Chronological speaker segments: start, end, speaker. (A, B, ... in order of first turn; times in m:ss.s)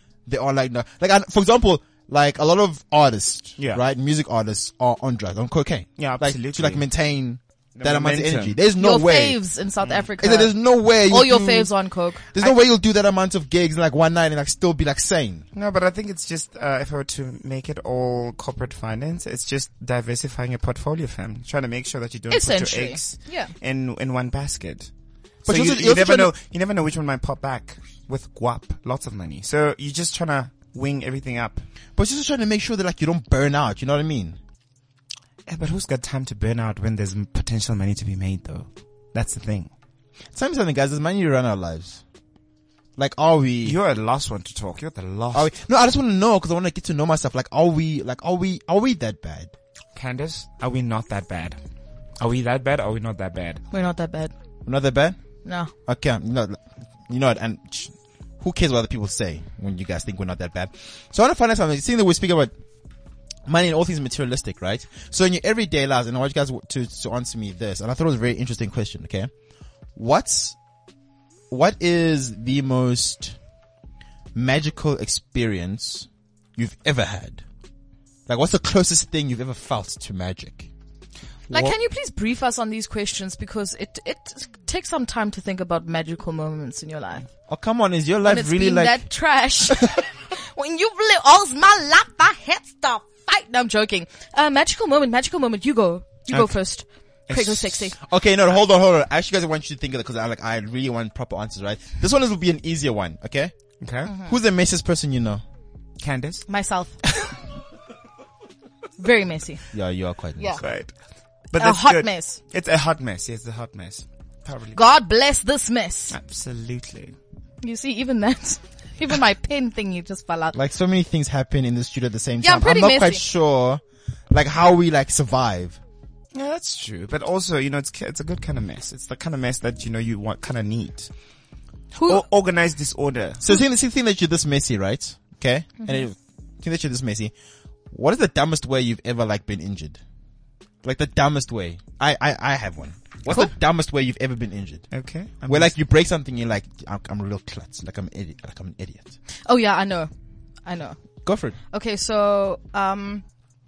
0:00.3-0:09.4 A
0:03.6-0:03.8 B
0:06.0-0:06.9 B
0:07.8-0:08.6 B
0:08.8-0:12.2 C
0:09.8-0:10.1 B
0:10.2-0:11.7 A
0:12.3-0:15.4 A
0:12.4-0:12.7 B
0:15.5-0:24.9 B
0:22.3-0:23.5 C
0:25.4-0:26.3 A
0:25.4-0:31.7 B
0:32.0-0:34.4 A
0:35.5-0:39.7 B
0:40.3-0:42.0 A
0:43.0-0:43.8 A
0:43.6-0:45.5 B
0:45.3-0:49.5 A
0:50.0-0:51.6 B
0:52.2-0:53.6 B
0:53.7-0:54.3 C
0:54.7-0:55.2 A
0:55.4-0:55.7 C
0:55.8-1:02.5 A
1:03.5-1:09.3 A
1:10.0-1:10.6 A
1:11.5-1:13.4 A
1:14.4-1:17.4 A
1:18.3-1:20.7 A
1:21.5-1:21.8 B
1:21.5-1:27.2 C
1:27.5-1:29.1 A
1:28.2-1:38.0 C
1:37.3-1:37.9 B
1:38.0-1:43.5 A
1:43.8-1:44.1 B
1:44.1-1:44.3 C
1:44.2-1:45.4 A
1:46.0-1:46.5 B
1:46.5-1:47.0 C
1:49.0-1:49.6 C
1:49.7-1:50.6 A
1:50.6-1:50.9 B
1:51.5-1:54.8 B
1:51.6-1:52.4 C
1:54.7-1:56.2 C
1:56.1-1:57.2 B
1:57.6-2:00.6 C
2:00.5-2:05.8 A
2:02.4-2:03.2 C
2:06.3-2:11.1 B
2:11.9-2:12.2 C
2:12.0-2:13.4 B
2:13.4-2:17.3 A
2:17.9-2:20.0 A
2:20.8-2:24.9 A
2:24.9-2:25.8 B
2:25.5-2:29.2 A
2:29.5-2:30.1 C
2:30.7-2:31.0 C
2:31.2-2:31.6 A
2:31.7-2:33.2 C